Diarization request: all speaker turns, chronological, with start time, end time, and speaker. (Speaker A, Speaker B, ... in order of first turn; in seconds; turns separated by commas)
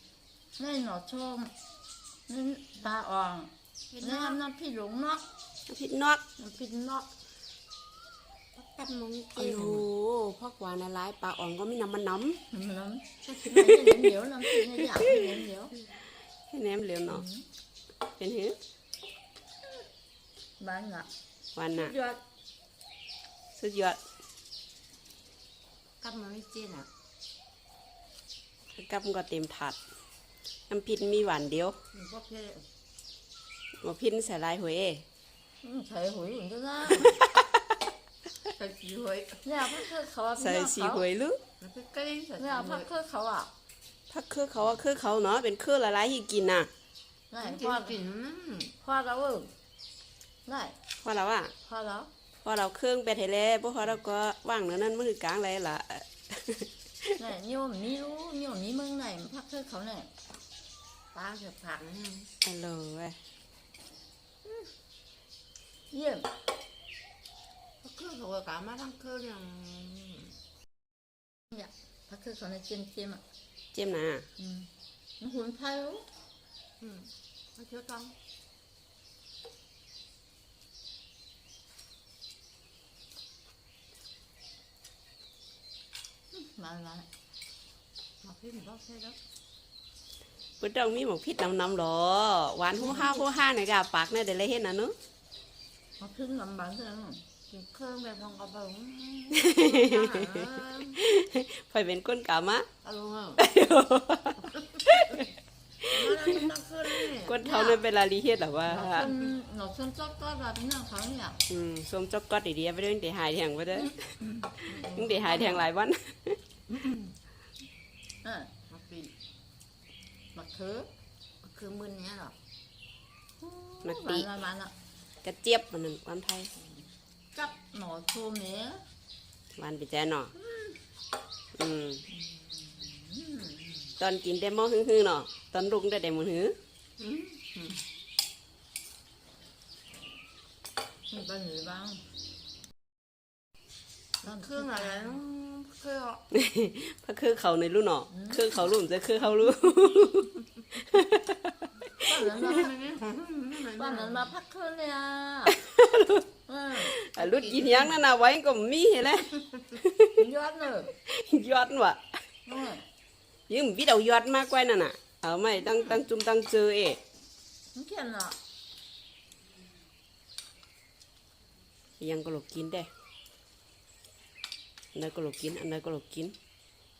Speaker A: 0.6-1.5, Speaker A: 2.3-5.2, Speaker B: 3.9-4.4, Speaker C: 5.7-6.2, Speaker A: 6.4-7.1, Speaker B: 8.6-9.9, Speaker C: 9.4-12.4, Speaker A: 12.5-15.7, Speaker C: 14.6-15.3, Speaker C: 16.5-17.2, Speaker A: 17.1-17.4, Speaker C: 18.2-18.6, Speaker A: 20.6-21.1, Speaker C: 21.6-21.9, Speaker A: 21.7-22.2, Speaker C: 23.6-24.0, Speaker B: 26.0-26.9, Speaker C: 28.8-29.8, Speaker C: 30.7-31.8, Speaker B: 31.9-32.6, Speaker C: 33.8-35.0, Speaker A: 35.6-37.2, Speaker C: 37.0-37.5, Speaker B: 38.5-39.4, Speaker A: 39.4-41.1, Speaker C: 40.4-41.4, Speaker B: 41.6-42.9, Speaker A: 42.4-43.5, Speaker C: 44.1-46.7, Speaker A: 47.3-48.0, Speaker B: 47.4-48.7, Speaker A: 48.8-49.5, Speaker A: 50.5-50.8, Speaker C: 51.0-51.5, Speaker B: 51.6-52.1, Speaker C: 52.4-57.2, Speaker A: 57.2-60.1, Speaker B: 61.1-62.3, Speaker C: 62.4-63.2, Speaker A: 65.9-66.3, Speaker B: 67.8-70.3, Speaker A: 71.5-73.2, Speaker C: 73.7-74.3, Speaker A: 74.4-76.1, Speaker B: 76.8-78.1, Speaker A: 86.3-87.1, Speaker B: 88.2-89.2, Speaker C: 90.6-95.0, Speaker A: 92.8-93.1, Speaker A: 96.0-97.2, Speaker B: 97.5-101.0, Speaker C: 99.4-102.7, Speaker B: 102.8-103.4, Speaker C: 103.4-105.3, Speaker B: 104.5-104.9, Speaker C: 105.8-106.5, Speaker B: 105.8-107.4, Speaker C: 107.2-109.1, Speaker A: 107.4-107.8, Speaker A: 108.7-111.4, Speaker C: 111.5-116.4, Speaker A: 114.2-114.7, Speaker B: 114.7-115.7, Speaker B: 116.7-117.1, Speaker A: 118.2-118.5, Speaker B: 118.7-119.1, Speaker A: 120.3-120.9, Speaker B: 121.4-122.3, Speaker A: 123.4-124.7, Speaker C: 123.8-124.3, Speaker C: 125.2-126.5, Speaker B: 126.6-126.9, Speaker A: 127.3-128.8, Speaker C: 129.6-130.3, Speaker A: 130.4-130.8, Speaker C: 131.6-132.0, Speaker A: 132.7-133.9, Speaker C: 134.0-136.6, Speaker B: 137.0-137.8, Speaker A: 141.1-142.0, Speaker B: 144.2-146.2, Speaker A: 144.2-145.2, Speaker C: 146.3-152.2, Speaker A: 148.1-148.5, Speaker A: 152.1-152.7, Speaker B: 152.1-154.3, Speaker A: 153.8-155.6, Speaker C: 155.5-156.3, Speaker A: 156.5-156.9, Speaker C: 156.8-160.2, Speaker B: 157.2-158.0, Speaker A: 160.2-160.9, Speaker C: 161.1-162.2, Speaker A: 162.5-162.9, Speaker C: 163.5-167.0, Speaker A: 167.8-168.4, Speaker C: 172.0-172.9, Speaker C: 174.9-176.3